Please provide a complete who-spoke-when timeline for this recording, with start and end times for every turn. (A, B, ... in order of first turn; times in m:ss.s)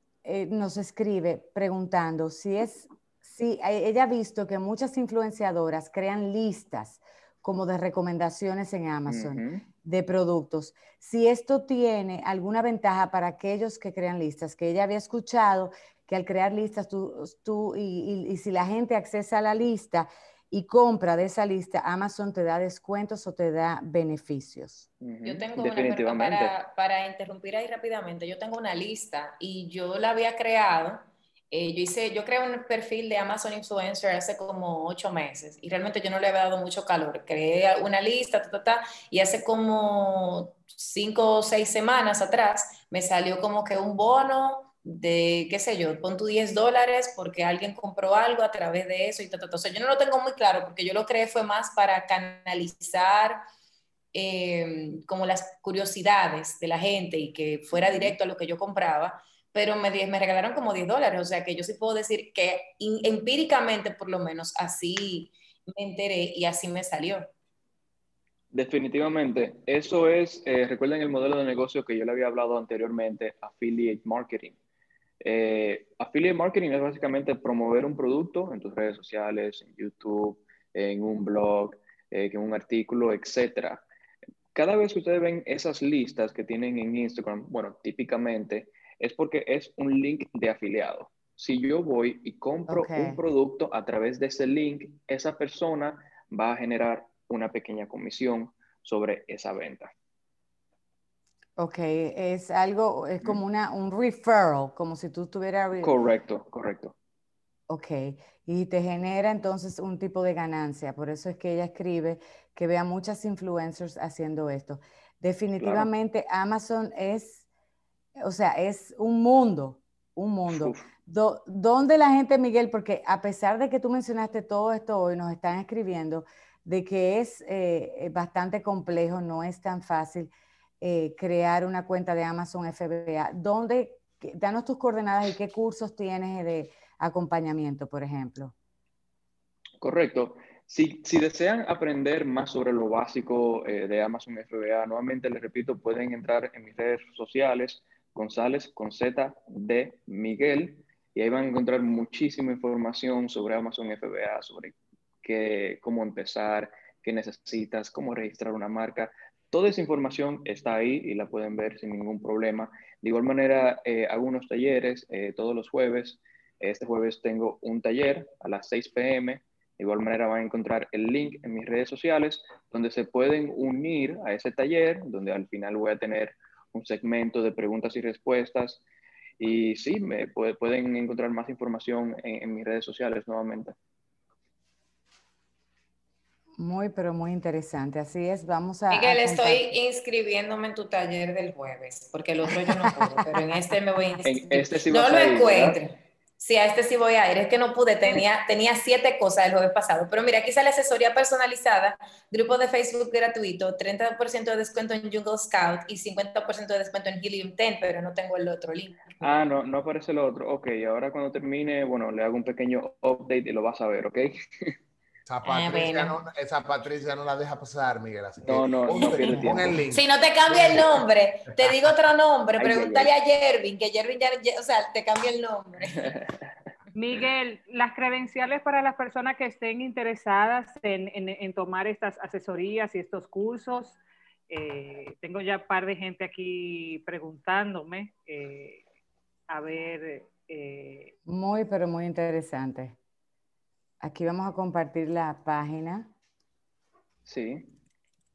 0:00.2-0:24.9 A
0:09.1-0:09.6 B
0:25.0-0:26.5 B
0:25.2-0:53.4 C
0:54.1-1:07.3 C
0:57.7-0:58.2 B
1:08.5-1:14.6 B
1:15.2-1:23.8 B
1:24.6-1:39.9 B
1:32.7-1:33.2 A
1:41.6-1:45.9 A
1:45.8-1:47.0 B
1:47.7-1:57.4 A
1:55.6-1:55.9 B
1:58.2-2:18.5 A
2:00.5-2:00.8 B
2:19.8-2:58.8 B
2:59.4-3:03.8 B
3:06.6-3:09.7 A
3:08.9-3:29.2 C
3:12.6-3:14.2 A
3:14.2-3:15.8 B
3:29.2-3:34.8 B
3:35.3-3:41.0 D
3:35.4-3:36.2 C
3:38.4-3:39.8 B
3:39.9-3:46.1 C
3:42.6-3:43.1 B
3:46.0-3:46.3 B
3:47.0-3:54.0 E
3:54.5-3:58.8 E
3:59.5-4:01.1 E
4:01.3-4:03.0 A
4:04.0-4:06.1 A
4:07.3-4:07.7 B